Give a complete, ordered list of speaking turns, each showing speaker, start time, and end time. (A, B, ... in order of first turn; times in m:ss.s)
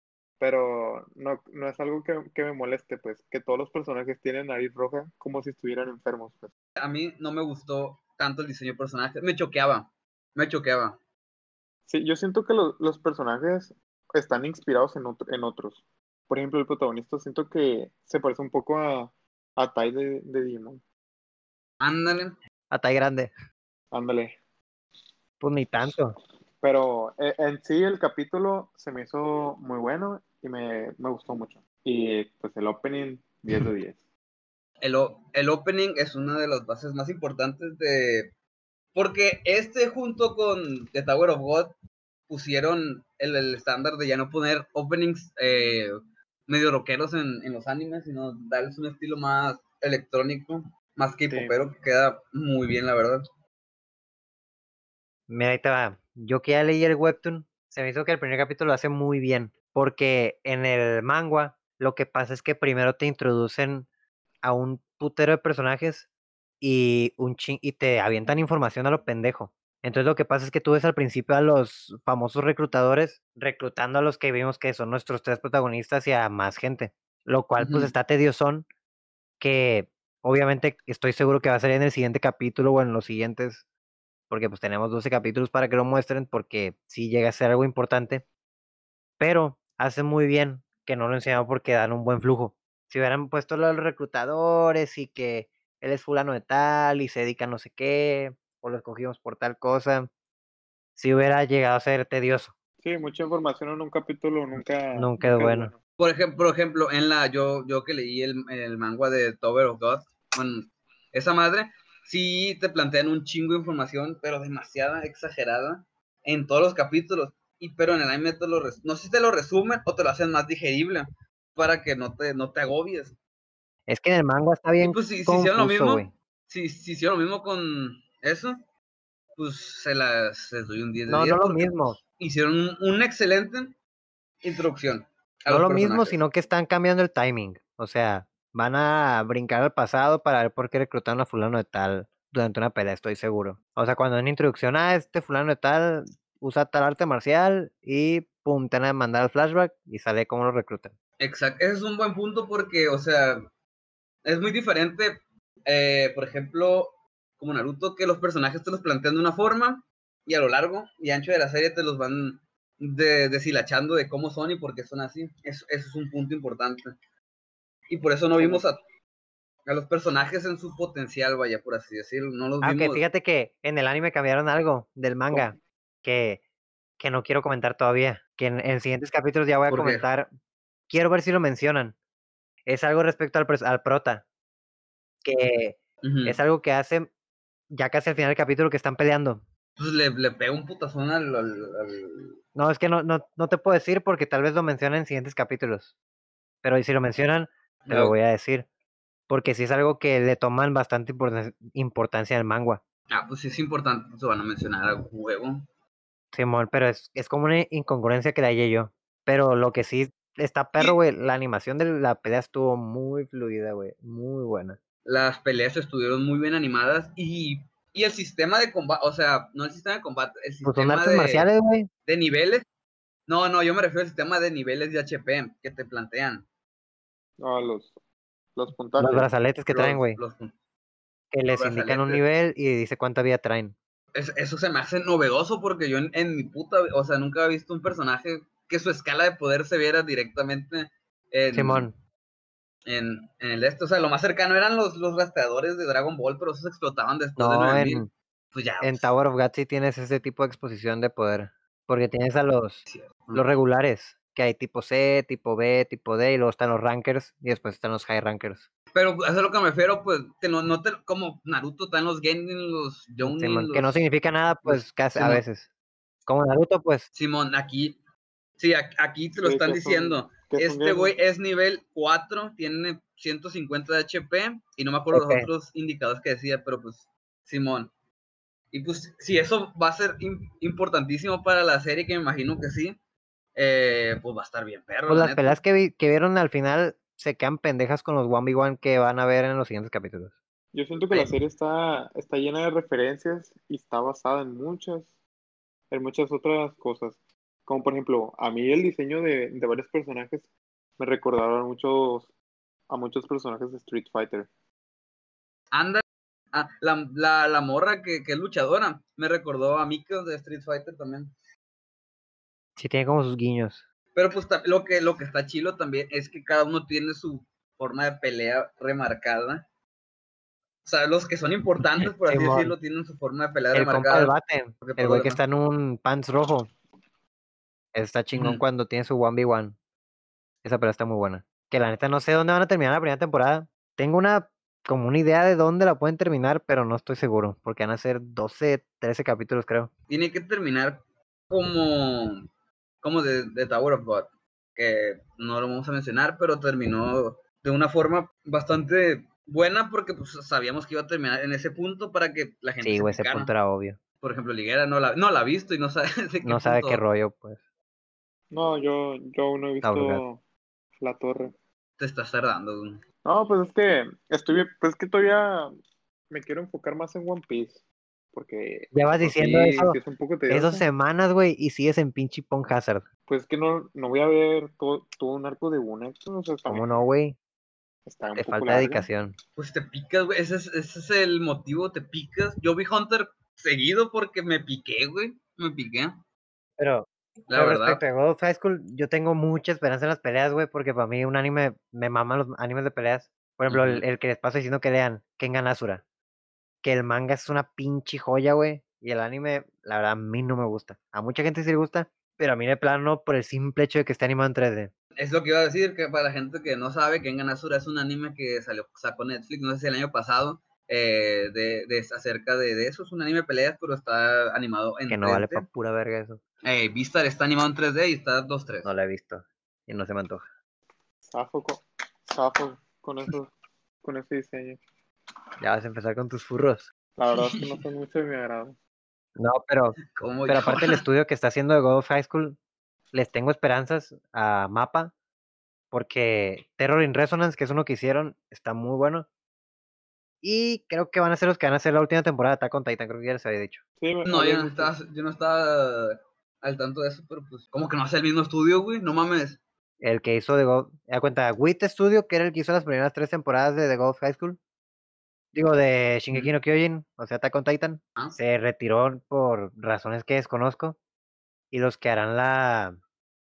0:00.4-0:06.5 A
0:06.8-0:11.0 B
0:11.9-0:20.8 A
0:21.8-0:22.4 B
0:22.7-0:23.3 C
0:23.9-0:24.4 A
0:25.4-0:26.2 C
0:26.6-0:34.0 A
0:34.8-0:38.3 B
0:38.9-0:41.8 B
0:42.3-0:45.9 B
0:46.5-0:53.2 B
0:51.3-0:51.6 A
0:55.3-1:03.9 C
1:04.4-1:06.1 C
1:06.6-1:18.7 C
1:17.6-1:17.9 B
1:19.4-1:23.6 C
1:24.3-1:28.2 C
1:29.2-1:40.1 C
1:41.0-1:42.5 C
1:42.8-1:45.8 A
1:44.9-1:45.7 C
1:46.0-2:03.2 B
2:03.9-2:06.1 C
2:04.8-2:08.6 B
2:09.4-2:13.8 B
2:11.1-2:12.0 C
2:14.4-2:16.2 B
2:15.5-2:30.9 C
2:31.2-2:33.5 B
2:34.2-2:46.9 B
2:47.9-2:48.8 B
2:48.4-2:48.6 A
2:49.7-2:53.0 B
2:52.6-2:56.4 C
2:57.0-3:00.3 C
2:59.7-3:00.1 B
3:00.9-3:02.0 C
3:02.7-3:04.2 C
3:05.2-3:07.1 C
3:06.0-3:06.4 B
3:07.7-3:09.4 C
3:09.8-3:12.4 B
3:12.6-3:15.9 C
3:16.6-3:18.7 C
3:17.9-3:18.2 B
3:19.3-3:22.8 C
3:23.1-3:25.7 B
3:26.3-3:34.8 C
3:35.0-3:41.5 B
3:40.6-3:41.9 C
3:42.1-3:42.6 B
3:43.3-3:46.5 B
3:47.4-3:48.0 A
3:48.6-3:49.3 A
3:49.0-3:50.2 C
3:49.7-3:50.6 B
3:51.3-3:53.8 C
3:51.5-3:52.2 B
3:54.2-4:01.9 B
4:01.5-4:02.0 C
4:02.9-4:09.1 B
4:07.4-4:08.1 C
4:08.8-4:18.6 C
4:12.9-4:13.5 B
4:18.9-4:24.1 B
4:23.2-4:25.7 C
4:24.6-4:25.4 B
4:26.3-4:27.1 C
4:27.1-4:28.0 B
4:28.6-4:37.9 B
4:29.4-4:31.2 A
4:35.1-4:35.5 C
4:38.7-4:43.0 B
4:43.6-4:45.6 B
4:45.1-4:50.4 C
4:50.7-4:55.2 A
4:55.9-5:02.3 A
5:02.9-5:04.5 A
5:05.7-5:11.3 B
5:12.8-5:13.8 C
5:14.2-5:19.6 B
5:20.8-5:25.4 B
5:22.0-5:22.8 C
5:23.7-5:26.7 C
5:27.9-5:29.8 C
5:28.3-5:28.6 B
5:30.6-5:39.9 C
5:40.1-5:42.4 B
5:43.0-5:53.5 B
5:52.8-5:54.0 C
5:54.2-5:57.0 B
5:56.4-5:57.6 C
5:58.5-6:00.4 A
5:59.8-6:00.2 C
6:01.0-6:01.5 A
6:02.0-6:03.0 B
6:03.2-6:05.7 A
6:06.3-6:10.8 A
6:08.9-6:10.0 C
6:10.5-6:13.1 C
6:13.3-6:16.9 A
6:16.7-6:17.4 C
6:18.1-6:19.1 A
6:18.4-6:19.4 C
6:19.6-6:26.2 B
6:26.8-6:36.0 C
6:27.5-6:28.0 B
6:33.7-6:34.0 B
6:36.8-6:44.9 C
6:45.2-6:55.7 B
6:55.1-6:56.4 C
6:56.6-6:58.9 B
6:58.8-7:00.5 C
7:01.3-7:03.5 A
7:04.0-7:04.8 A
7:05.6-7:06.9 C
7:07.2-7:08.8 A
7:07.3-7:07.6 B
7:09.4-7:12.6 C
7:10.2-7:11.0 B
7:13.1-7:15.1 C
7:15.9-7:19.3 C
7:20.4-7:23.8 C
7:24.0-7:24.9 A
7:24.2-7:29.6 B
7:30.0-7:34.6 C
7:35.5-7:41.0 C
7:41.7-7:43.0 C